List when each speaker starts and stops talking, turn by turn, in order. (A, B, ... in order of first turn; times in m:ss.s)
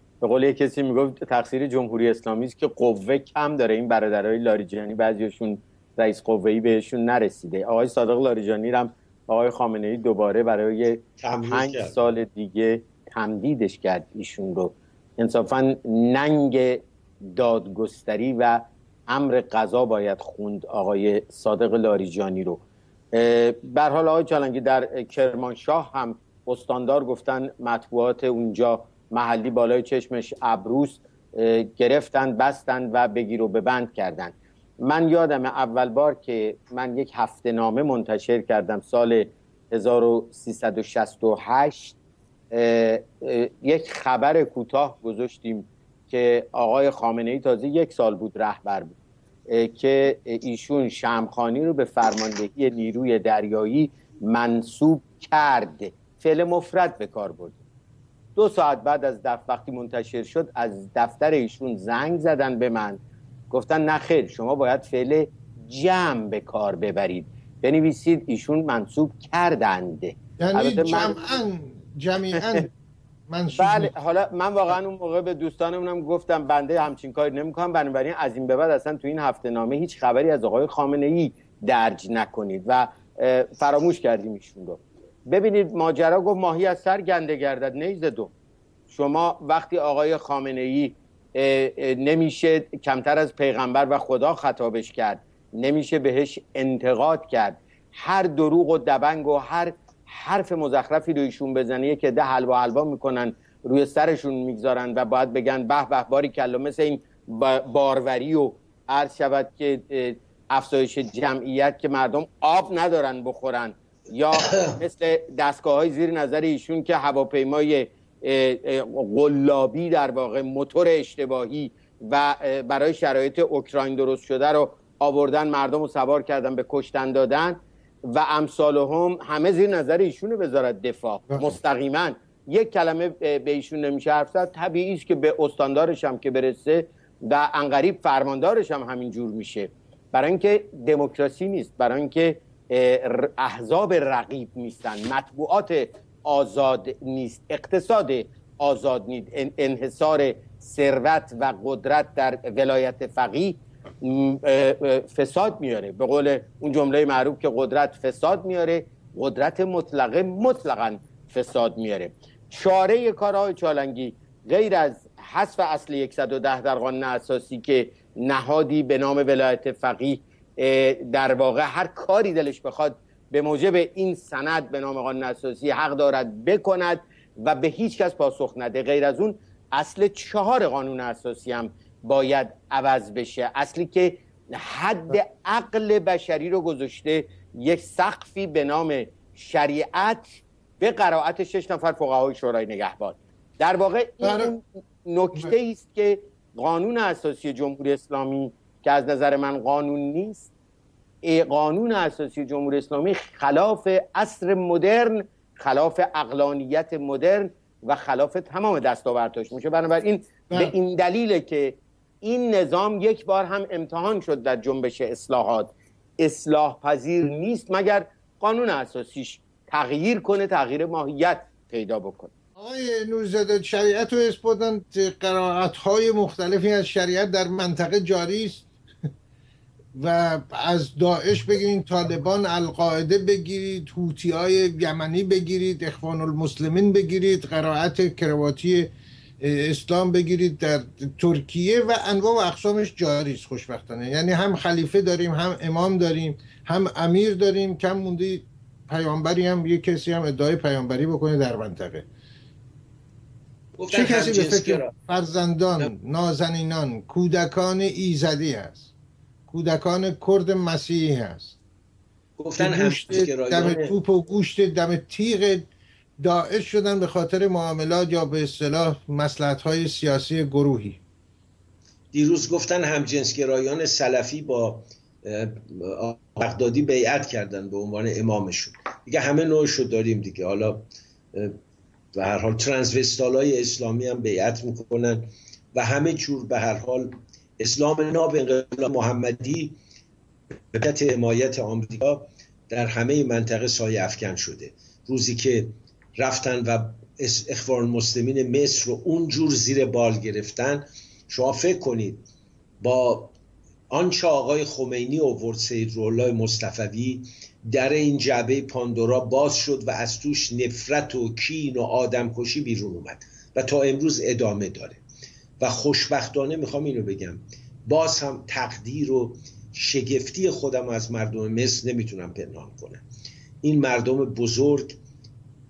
0:00.2-0:22.6 A
0:11.2-0:12.1 B
0:23.1-0:42.0 A
0:42.5-0:49.0 A
0:49.5-0:57.6 A
0:58.4-1:11.2 A
1:10.4-1:12.7 C
1:12.3-1:12.6 A
1:13.3-1:13.9 C
1:13.5-1:28.3 A
1:28.9-3:20.5 A
3:14.2-3:14.5 C
3:21.2-3:42.3 A
3:42.6-3:48.7 C
3:49.9-3:58.9 C
3:59.4-4:12.1 C
4:13.8-4:14.9 B
4:13.9-4:18.9 C
4:19.5-4:21.6 C
4:22.4-4:24.0 B
4:22.6-4:25.7 C
4:26.2-4:31.0 C
4:32.1-4:41.6 B
4:42.1-4:49.8 B
4:50.7-5:02.3 B
5:02.8-5:03.3 B
5:03.9-5:15.0 B
5:15.6-5:23.0 B
5:23.6-5:25.0 B